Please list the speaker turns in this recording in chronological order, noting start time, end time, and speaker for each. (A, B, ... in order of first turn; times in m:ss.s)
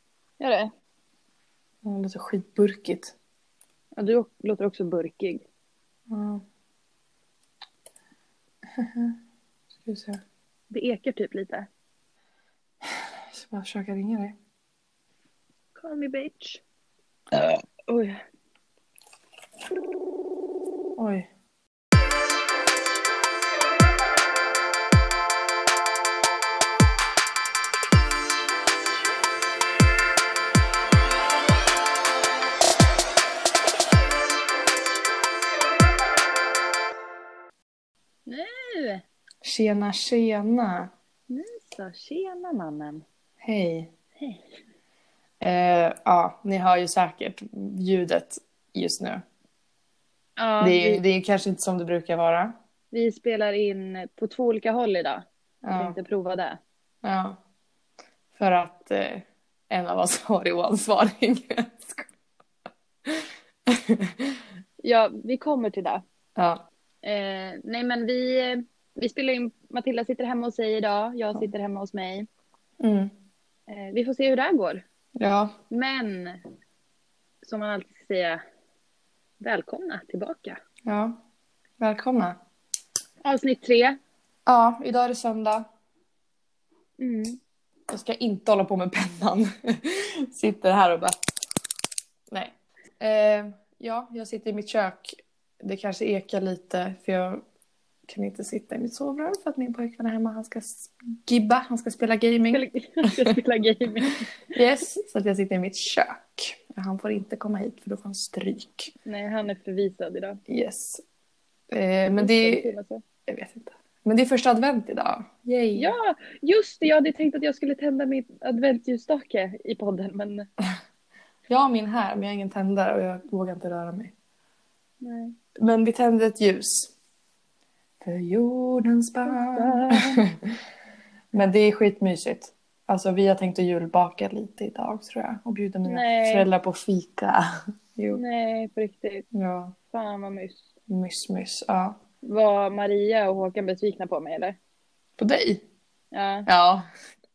0:00.4-0:00.7 A
0:01.8-0:03.1 B
0:04.0-0:05.4 A
0:06.1-0:06.4 B
0:08.8-0:09.2 B
0:09.9-0:10.2 B
0:10.7-0:11.7 A
0:12.8-0:14.4 B
0:15.7-0:16.6 A
0:17.8-0:18.2 A
0:21.0-0:21.3 B
0:38.3-0:39.0 A
0:39.4-0:40.9 B
0:41.3-0:43.0 A
0:43.4-0:43.9 B
0:45.4-0:49.2 B
0:50.4-0:51.0 A
0:50.6-0:52.6 B
0:52.9-0:56.6 A
0:55.6-0:56.0 B
0:57.0-0:57.4 B
0:58.3-1:02.1 B
1:03.1-1:04.3 B
1:04.8-1:06.0 A
1:06.4-1:06.6 B
1:07.0-1:12.3 A
1:12.8-1:13.1 B
1:13.7-1:14.8 A
1:15.2-1:15.6 B
1:15.7-1:16.4 A
1:17.4-1:18.4 A
1:19.4-1:20.6 A
1:20.9-1:21.2 B
1:21.8-1:22.4 B
1:23.2-1:24.0 A
1:24.4-1:25.7 B
1:27.0-1:27.4 A
1:27.9-1:31.2 B
1:32.3-1:37.4 B
1:38.1-1:43.3 B
1:42.5-1:44.3 A
1:44.5-1:48.9 B
1:49.0-1:50.4 A
1:50.5-1:51.0 B
1:51.7-1:52.7 B
1:52.2-1:53.0 A
1:53.3-1:55.9 B
1:55.8-2:00.5 A
2:01.5-2:04.1 B
2:05.0-2:05.3 A
2:05.6-2:06.9 B
2:08.0-2:10.5 B
2:09.2-2:10.2 A
2:11.3-2:17.4 B
2:15.8-2:16.5 A
2:18.0-2:18.2 B
2:18.1-2:19.2 A
2:19.3-2:19.8 B
2:19.9-2:20.6 A
2:20.9-2:22.0 B
2:22.2-2:24.6 A
2:25.2-2:25.6 B
2:26.1-2:26.5 A
2:26.5-2:26.8 B